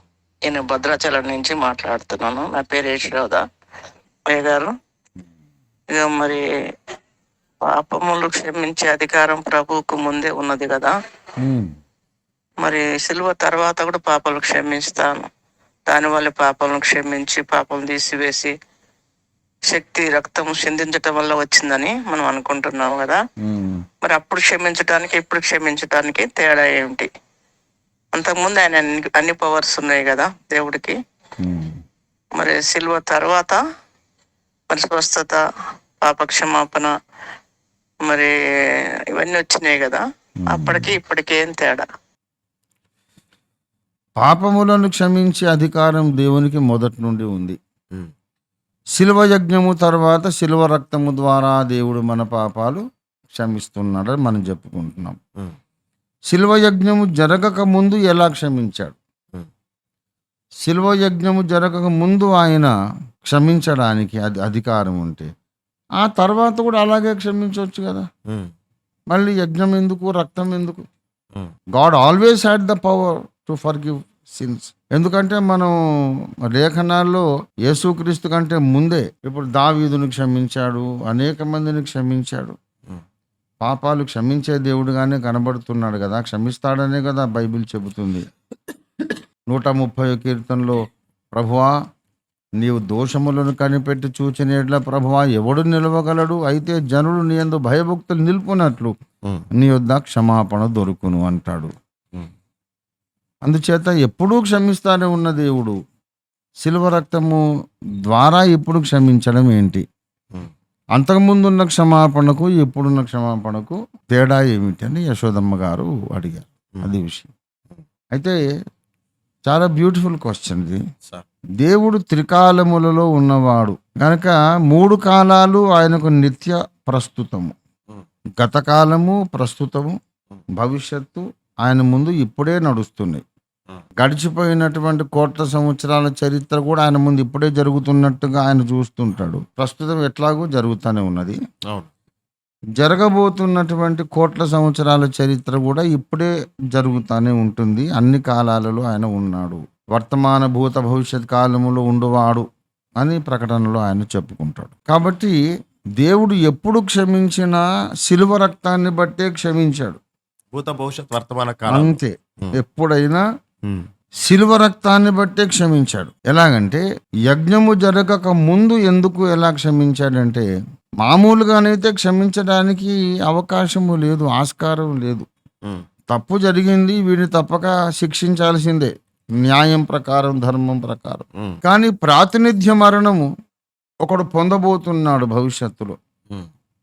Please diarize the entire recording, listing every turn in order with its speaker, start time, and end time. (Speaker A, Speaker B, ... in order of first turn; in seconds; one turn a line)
Speaker A: 0.5-3.4
Speaker A: 4.3-4.7
Speaker A: 5.9-6.4
Speaker A: 7.7-10.9
Speaker B: 11.4-11.7
Speaker A: 12.6-15.1
Speaker A: 15.9-18.5
Speaker A: 19.7-23.2
Speaker B: 23.4-23.8
Speaker A: 24.0-27.1
Speaker A: 28.1-30.9
Speaker B: 31.4-31.8
Speaker A: 32.4-33.6
Speaker A: 34.7-35.4
Speaker A: 36.0-36.9
Speaker A: 38.1-38.3
Speaker A: 39.1-41.8
Speaker B: 40.5-41.0
Speaker B: 44.2-47.6
Speaker B: 49.0-52.8
Speaker B: 53.3-55.2
Speaker B: 56.3-59.0
Speaker B: 60.6-62.7
Speaker B: 63.2-65.3
Speaker B: 66.0-68.0
Speaker B: 69.1-70.8
Speaker B: 71.7-75.7
Speaker B: 76.5-82.5
Speaker B: 83.6-88.3
Speaker B: 89.5-90.8
Speaker B: 91.3-91.7
Speaker B: 92.6-98.9
Speaker B: 99.5-101.7
Speaker B: 103.4-105.8
Speaker B: 106.6-107.4
Speaker B: 108.1-109.8
Speaker B: 111.0-117.3
Speaker B: 119.5-120.8
Speaker B: 121.6-127.5
Speaker B: 128.4-129.9
Speaker B: 130.6-133.2
Speaker B: 134.0-141.3
Speaker B: 142.8-152.4
Speaker B: 153.0-155.3
Speaker B: 156.0-160.0
Speaker C: 160.5-162.6
Speaker B: 161.7-163.2
Speaker B: 164.2-170.4
Speaker B: 171.0-175.3
Speaker B: 176.1-183.3
Speaker B: 184.0-185.9